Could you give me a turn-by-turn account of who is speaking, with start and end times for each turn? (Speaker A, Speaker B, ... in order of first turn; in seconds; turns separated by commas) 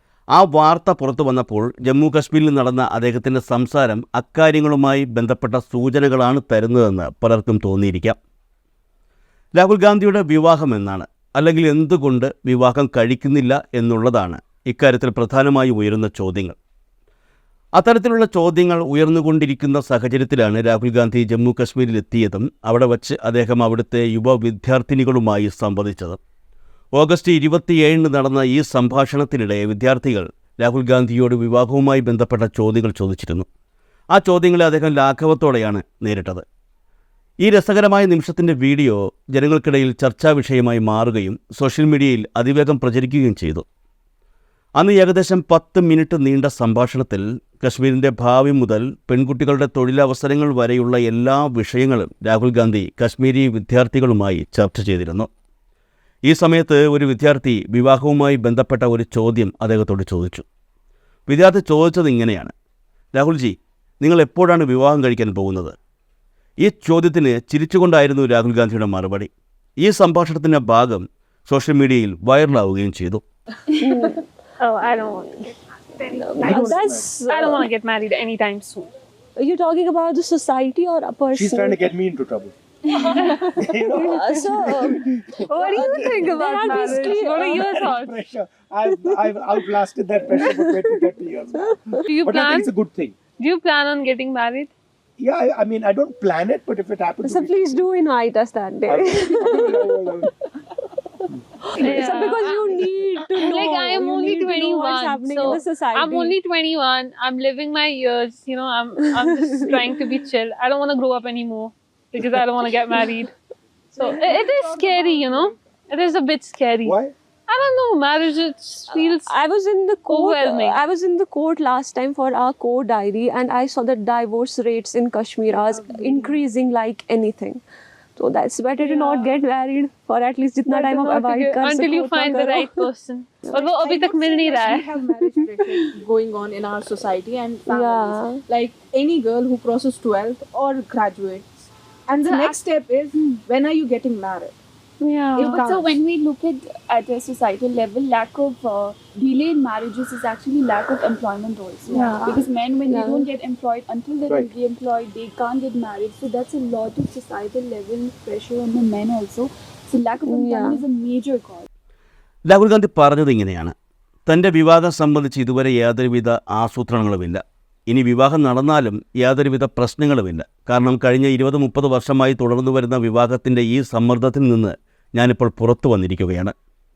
Speaker A: 0.3-8.2, Speaker A: 9.6-16.6, Speaker A: 17.8-26.2, Speaker A: 26.9-33.5, Speaker A: 34.1-36.4, Speaker A: 37.4-43.6, Speaker A: 44.8-55.3, Speaker A: 56.3-60.4, Speaker A: 61.3-62.5, Speaker A: 63.1-65.7, Speaker A: 66.6-73.2, Speaker B: 73.8-74.2, Speaker C: 74.6-76.7, Speaker B: 76.0-77.7, Speaker D: 76.4-77.1, Speaker C: 77.3-78.9, Speaker B: 79.4-81.8, Speaker D: 81.3-93.1, Speaker B: 83.2-87.9, Speaker C: 85.5-88.2, Speaker B: 88.9-89.3, Speaker B: 90.3-91.7, Speaker C: 92.0-92.7, Speaker C: 93.4-94.7, Speaker D: 95.2-97.8, Speaker B: 97.2-100.0, Speaker D: 98.9-100.3, Speaker B: 101.8-106.3, Speaker C: 101.8-102.7, Speaker C: 103.4-113.3, Speaker B: 109.0-109.8, Speaker E: 113.9-115.6, Speaker C: 113.9-117.0, Speaker D: 116.8-117.1, Speaker C: 117.5-119.3, Speaker B: 118.9-127.6, Speaker C: 120.1-120.8, Speaker E: 125.6-126.4, Speaker B: 128.2-132.9, Speaker C: 128.8-129.3, Speaker C: 130.7-134.9, Speaker E: 133.5-141.5, Speaker B: 137.7-138.4, Speaker E: 142.1-144.6, Speaker C: 145.0-145.7, Speaker F: 145.3-161.7, Speaker E: 145.4-146.0, Speaker E: 151.9-152.3, Speaker C: 151.9-152.3, Speaker B: 152.8-153.3, Speaker B: 160.2-160.8, Speaker A: 162.5-163.7, Speaker A: 164.3-176.5